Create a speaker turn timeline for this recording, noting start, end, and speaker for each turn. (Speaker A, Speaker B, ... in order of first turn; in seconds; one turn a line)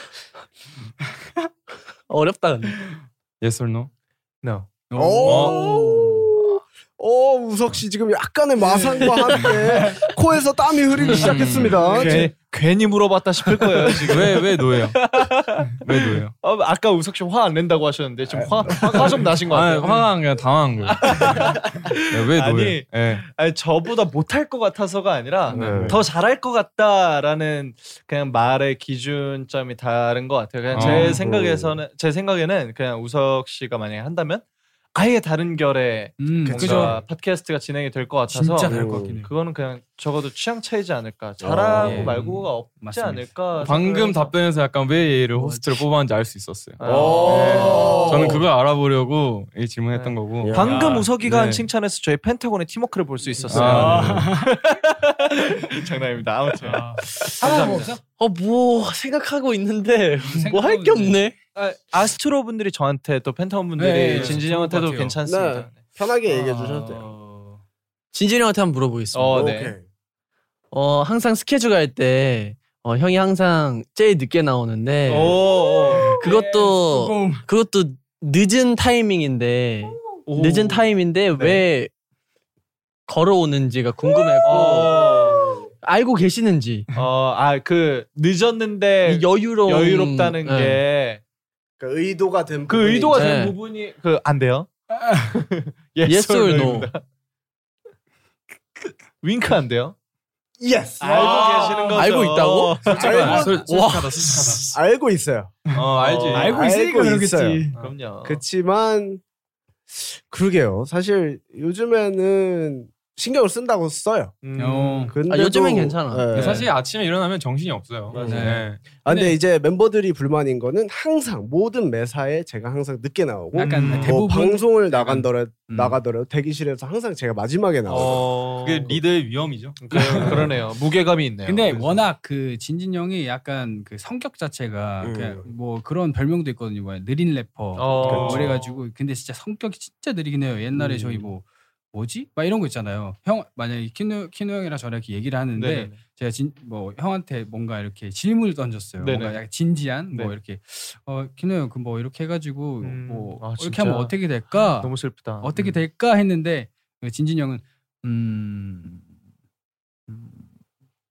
Speaker A: 2.1-2.8
Speaker B: 3.4-3.9
Speaker C: 4.4-4.7
Speaker D: 4.9-6.2
Speaker E: 4.9-12.3
Speaker B: 5.2-5.7
Speaker D: 8.6-10.1
Speaker A: 9.0-9.5
Speaker B: 11.0-12.0
Speaker D: 11.6-12.2
Speaker C: 11.8-20.1
Speaker B: 14.0-15.0
Speaker B: 15.8-16.3
Speaker E: 18.3-19.3
Speaker B: 19.5-23.2
Speaker C: 20.9-44.3
Speaker D: 25.5-25.9
Speaker E: 25.5-26.0
Speaker B: 30.7-31.2
Speaker D: 30.7-31.2
Speaker E: 31.1-31.8
Speaker D: 36.2-37.0
Speaker E: 36.4-37.0
Speaker D: 38.3-39.3
Speaker E: 38.6-39.2
Speaker E: 41.4-42.1
Speaker D: 41.8-43.4
Speaker B: 43.6-51.7
Speaker C: 46.8-48.4
Speaker E: 46.8-48.4
Speaker D: 47.0-48.4
Speaker C: 49.9-58.0
Speaker E: 50.4-51.0
Speaker D: 50.7-51.0
Speaker B: 53.5-54.3
Speaker E: 53.5-54.3
Speaker D: 53.5-54.6
Speaker D: 56.6-58.0
Speaker A: 57.4-61.3
Speaker D: 60.2-61.2
Speaker C: 61.5-65.8
Speaker D: 63.8-65.1
Speaker B: 64.1-64.4
Speaker E: 65.2-67.0
Speaker D: 66.2-67.6
Speaker A: 68.1-69.5
Speaker C: 69.1-69.8
Speaker E: 69.3-69.8
Speaker A: 70.7-75.4
Speaker C: 75.0-76.2
Speaker D: 76.0-77.4
Speaker A: 76.1-81.9
Speaker C: 80.2-81.6
Speaker A: 83.1-86.9
Speaker C: 84.4-85.4
Speaker E: 85.2-85.7
Speaker C: 86.9-91.2
Speaker A: 89.0-90.8
Speaker E: 91.8-93.3
Speaker C: 92.7-97.0
Speaker A: 93.1-93.5
Speaker D: 94.9-95.3
Speaker A: 96.1-96.9
Speaker C: 99.2-100.0
Speaker E: 100.6-102.0
Speaker C: 101.0-103.4
Speaker B: 101.1-102.1
Speaker A: 101.9-104.7
Speaker E: 102.9-103.7
Speaker B: 103.0-104.7
Speaker D: 103.0-103.5
Speaker E: 104.7-105.6
Speaker D: 105.7-107.8
Speaker B: 105.7-106.5
Speaker C: 106.0-106.5
Speaker E: 106.3-107.7
Speaker C: 107.8-108.4
Speaker E: 108.2-109.2
Speaker E: 109.9-114.3
Speaker C: 114.4-115.1
Speaker D: 114.6-115.1
Speaker E: 115.1-116.7
Speaker A: 115.3-116.5
Speaker B: 116.3-118.8
Speaker C: 118.1-118.5
Speaker E: 118.1-128.3
Speaker D: 118.2-119.4
Speaker D: 123.5-125.3
Speaker C: 123.6-124.2
Speaker C: 125.7-126.0
Speaker C: 127.9-129.0
Speaker B: 128.6-130.5
Speaker C: 129.8-131.9
Speaker D: 129.9-130.4
Speaker D: 131.4-159.1
Speaker E: 135.0-135.5
Speaker C: 137.8-138.7
Speaker B: 138.0-138.6
Speaker E: 138.1-138.4
Speaker E: 140.8-141.2
Speaker C: 145.6-146.0
Speaker C: 149.0-149.4
Speaker C: 152.8-155.8